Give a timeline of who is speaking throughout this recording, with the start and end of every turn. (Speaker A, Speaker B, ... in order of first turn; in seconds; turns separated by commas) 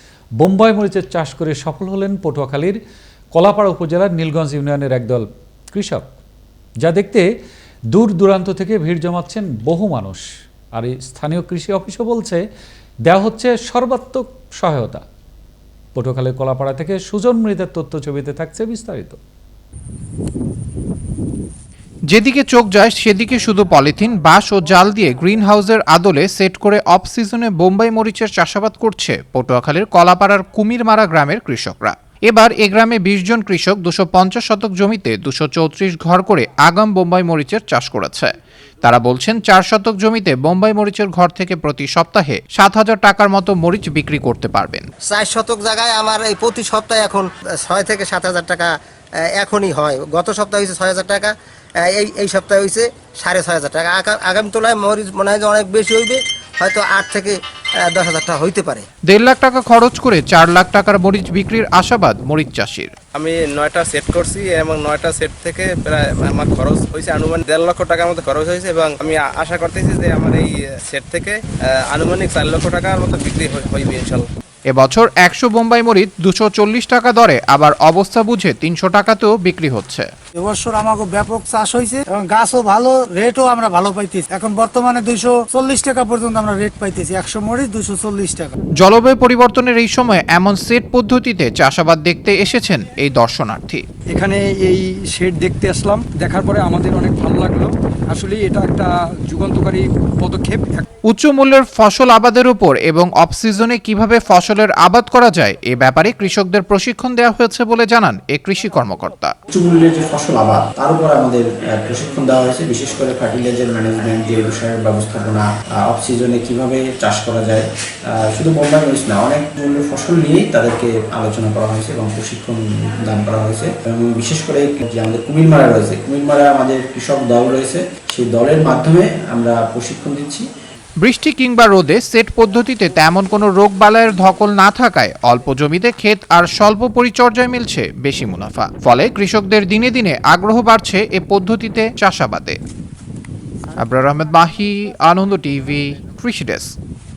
Speaker A: 0.4-2.8, Speaker A: 3.3-6.1, Speaker A: 6.8-7.3, Speaker A: 7.9-12.4, Speaker A: 13.1-15.1, Speaker A: 15.9-19.2, Speaker B: 22.1-44.9, Speaker C: 45.1-48.7, Speaker C: 49.4-51.3, Speaker C: 51.8-58.9, Speaker B: 59.1-62.9, Speaker D: 63.2-70.3, Speaker D: 70.9-71.3, Speaker D: 71.9-74.2, Speaker B: 74.7-80.1, Speaker E: 80.4-88.4, Speaker B: 88.8-93.9, Speaker F: 94.1-100.8, Speaker B: 101.0-109.3, Speaker G: 109.5-130.5, Speaker B: 131.0-142.6, Speaker B: 143.8-146.8